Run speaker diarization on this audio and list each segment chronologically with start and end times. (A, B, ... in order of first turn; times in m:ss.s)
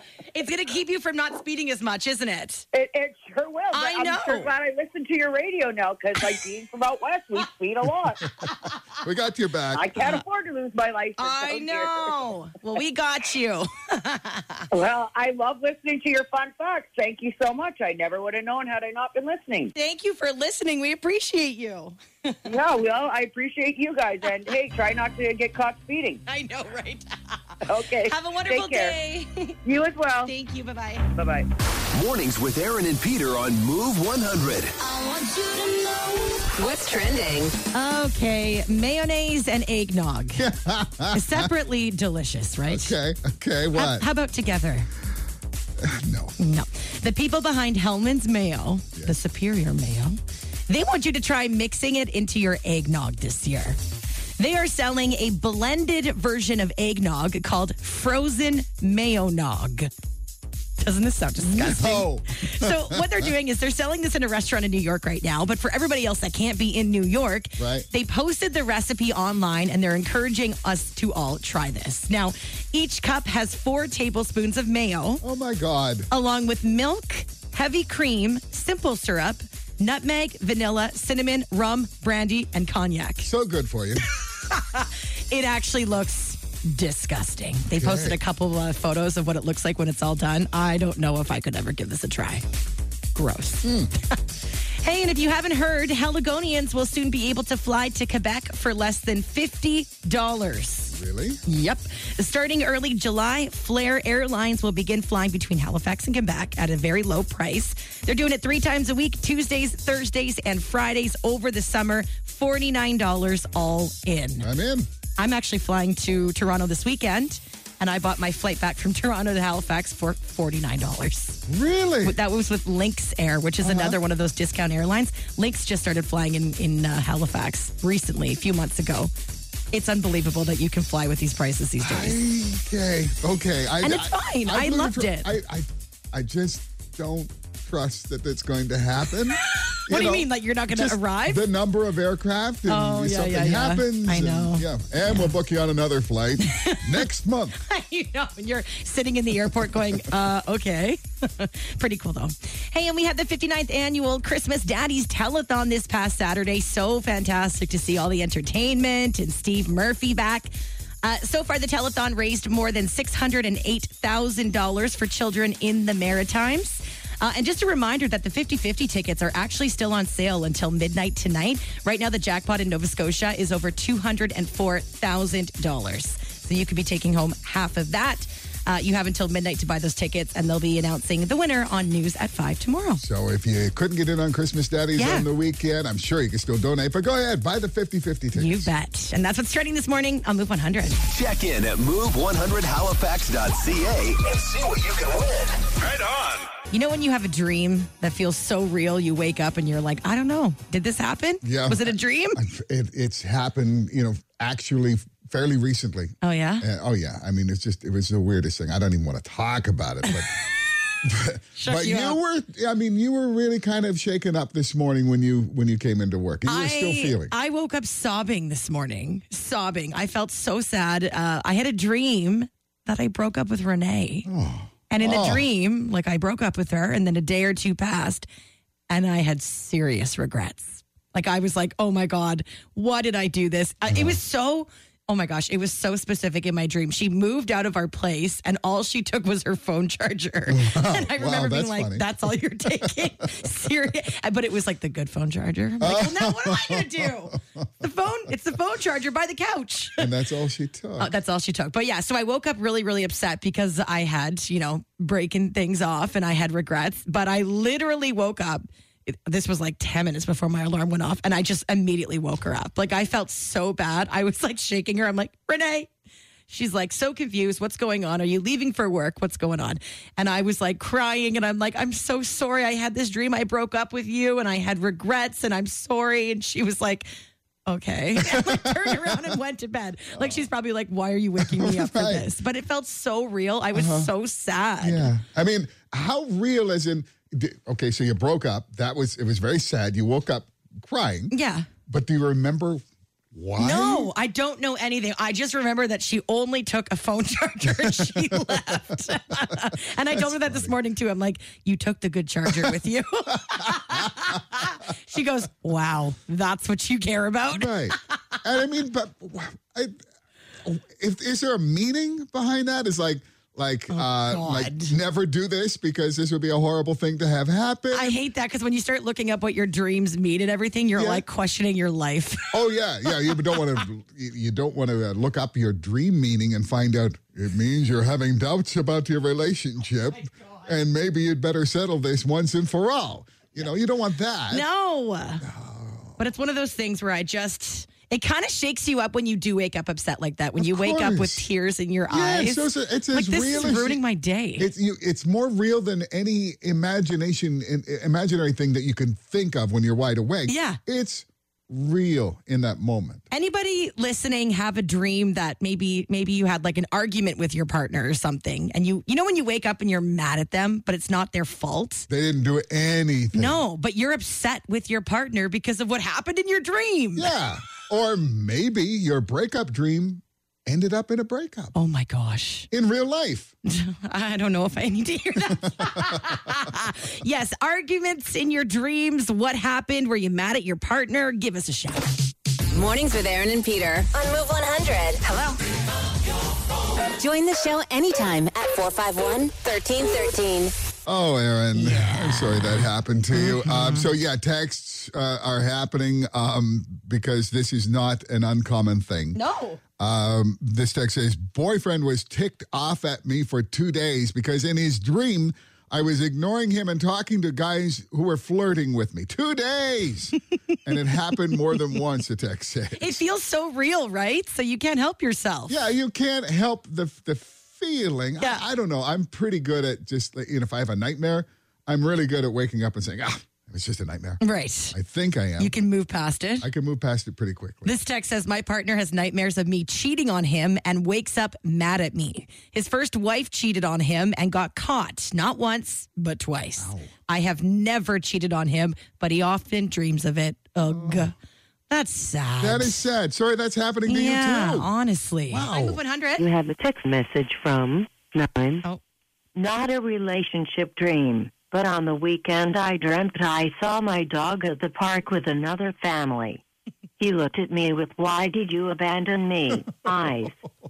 0:00.3-0:02.6 A
0:02.7-0:08.7 B
0:03.7-0:04.5 A
0:09.0-0:10.2 C
0:09.7-0:12.2 B
0:11.2-0:14.7 A
0:14.7-0:19.7 B
0:19.7-0:22.5 A
0:22.4-0:26.2 B
0:26.2-0:29.6 A
0:27.6-0:29.0 B
0:29.6-0:30.3 B
0:30.2-0:31.1 A
0:31.2-0:31.5 B
0:31.9-0:34.8 D
0:35.0-0:35.7 A
0:36.4-0:37.6 E
0:37.7-0:40.4 A
0:40.4-0:41.5 C
0:41.1-0:42.9 A
0:42.7-0:44.1 C
0:43.7-0:44.9 A
0:45.8-0:46.4 C
0:46.4-0:53.8 A
0:54.4-0:59.9 A
1:00.8-1:15.2 A
1:01.4-1:03.3 C
1:07.6-1:07.9 C
1:15.2-1:16.1 C
1:16.1-1:23.3 A
1:23.2-1:24.0 C
1:24.4-1:32.4 A
1:27.7-1:28.2 C
1:33.1-1:33.7 A
1:33.6-1:33.9 C
1:34.8-1:54.5 A
1:40.9-1:41.4 C
1:54.4-1:54.9 C
1:55.2-2:01.4 A
2:01.5-2:02.2 C
2:02.0-2:09.1 A
2:03.6-2:04.0 C
2:09.7-2:12.2 A
2:11.8-2:27.6 C
2:13.8-2:15.3 A
2:19.4-2:21.4 A
2:22.7-2:25.3 A
2:26.4-2:27.0 A
2:27.6-3:03.0 A
2:29.4-2:30.1 C
3:03.0-3:08.7 C
3:05.0-3:05.3 A
3:08.4-3:11.0 A
3:11.1-3:16.4 D
3:16.7-3:22.4 A
3:21.4-3:30.3 C
3:26.2-3:26.6 A
3:30.0-3:30.7 A
3:31.0-3:37.3 C
3:31.6-3:32.2 A
3:36.4-3:44.3 A
3:44.2-3:45.4 C
3:44.9-3:48.2 A
3:48.9-4:10.1 A
3:53.9-3:54.2 C
4:00.5-4:03.4 C
4:05.8-4:07.6 C
4:10.0-4:11.1 C
4:11.0-4:25.9 A
4:26.5-4:37.1 A
4:37.7-4:45.1 A
4:38.2-4:39.4 C
4:40.1-4:40.5 C
4:41.4-4:42.3 C
4:43.7-4:44.1 C
4:44.8-4:51.3 C
4:51.3-4:51.7 A
4:51.9-4:54.1 C
4:53.6-5:07.9 A
4:57.6-5:00.7 C
5:02.4-5:02.7 C
5:03.6-5:04.6 C
5:07.5-5:10.0 C
5:10.6-5:18.2 C
5:13.9-5:15.0 A
5:17.9-5:22.6 A
5:20.9-5:21.2 C
5:22.5-5:34.6 C
5:34.5-5:35.4 A
5:35.4-5:36.2 C
5:36.2-5:44.7 A
5:40.6-5:41.4 C
5:42.1-5:44.0 C
5:44.6-5:53.2 C
5:50.5-5:50.8 A
5:53.3-6:02.1 A
6:02.1-6:03.6 C
6:03.3-6:07.3 A
6:07.2-6:11.7 C
6:11.7-6:12.7 A
6:12.7-6:13.5 C
6:13.6-6:22.0 A
6:15.7-6:16.2 C
6:22.7-6:25.6 E
6:27.2-6:30.7 E
6:31.0-6:39.4 C
6:31.7-6:32.7 A
6:33.3-6:34.1 A
6:39.4-6:39.8 A
6:40.0-6:53.2 C
6:53.0-6:55.8 A
6:55.7-7:04.4 C
6:58.4-6:58.6 A
7:04.4-7:05.0 A
7:04.9-7:05.8 C
7:05.6-7:06.7 A
7:06.6-7:07.9 C
7:07.8-7:21.3 A
7:16.8-7:17.1 C
7:20.9-7:21.3 C
7:21.9-7:23.0 A
7:22.6-7:24.9 C
7:24.1-7:26.4 A
7:25.5-7:26.0 C
7:26.4-7:28.8 F
7:29.6-7:36.6 F
7:37.2-7:40.6 F